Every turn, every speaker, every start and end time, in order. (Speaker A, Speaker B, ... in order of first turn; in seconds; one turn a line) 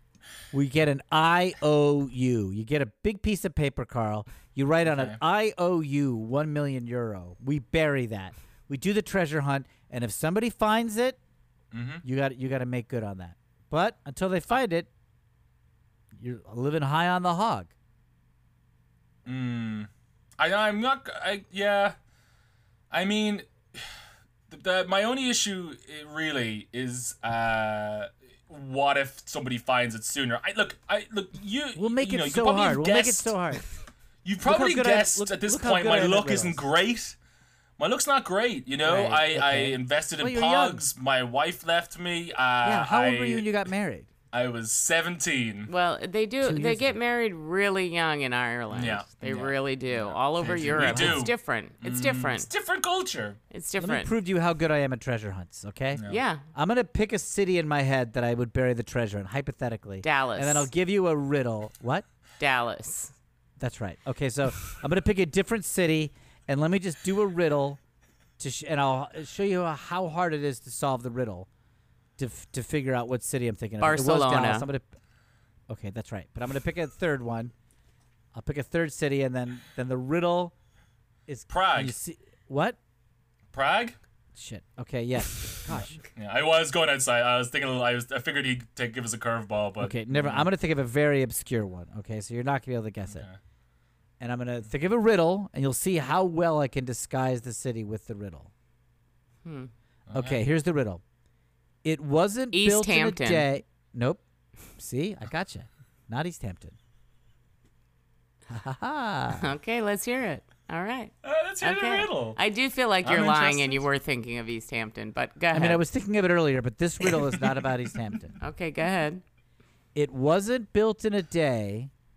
Speaker A: 0.5-11.2
Speaker B: 4.8-5.2
Speaker B: 11.7-12.0
Speaker A: 12.0-14.9
Speaker A: 16.1-17.7
Speaker B: 19.2-21.9
Speaker B: 22.9-23.9
Speaker B: 24.5-33.3
Speaker A: 31.8-33.6
Speaker B: 34.2-37.2
Speaker A: 34.4-36.6
Speaker B: 37.8-43.5
Speaker C: 38.9-39.2
Speaker A: 38.9-40.8
Speaker A: 42.6-44.1
Speaker B: 44.3-45.7
Speaker C: 45.7-52.5
Speaker A: 46.4-47.0
Speaker B: 48.7-53.4
Speaker A: 50.4-51.3
Speaker C: 53.5-54.1
Speaker A: 53.8-56.0
Speaker B: 56.0-56.2
Speaker C: 56.1-56.4
Speaker A: 56.5-62.0
Speaker C: 60.0-60.7
Speaker C: 62.4-63.1
Speaker A: 63.6-67.8
Speaker A: 68.4-71.5
Speaker A: 72.2-74.9
Speaker C: 73.8-74.7
Speaker A: 75.7-77.5
Speaker A: 78.3-80.5
Speaker A: 81.3-82.8
Speaker B: 81.5-81.9
Speaker B: 83.5-84.0
Speaker A: 84.3-86.0
Speaker B: 85.7-90.5
Speaker A: 89.8-93.2
Speaker B: 93.1-93.4
Speaker A: 94.2-98.5
Speaker C: 99.4-99.7
Speaker B: 100.1-100.4
Speaker A: 100.1-101.0
Speaker A: 101.8-104.2
Speaker C: 102.5-103.5
Speaker A: 104.8-106.8
Speaker A: 108.5-109.5
Speaker C: 109.3-115.8
Speaker B: 111.2-112.4
Speaker B: 113.0-113.8
Speaker A: 115.5-118.4
Speaker C: 118.4-119.2
Speaker A: 119.9-121.9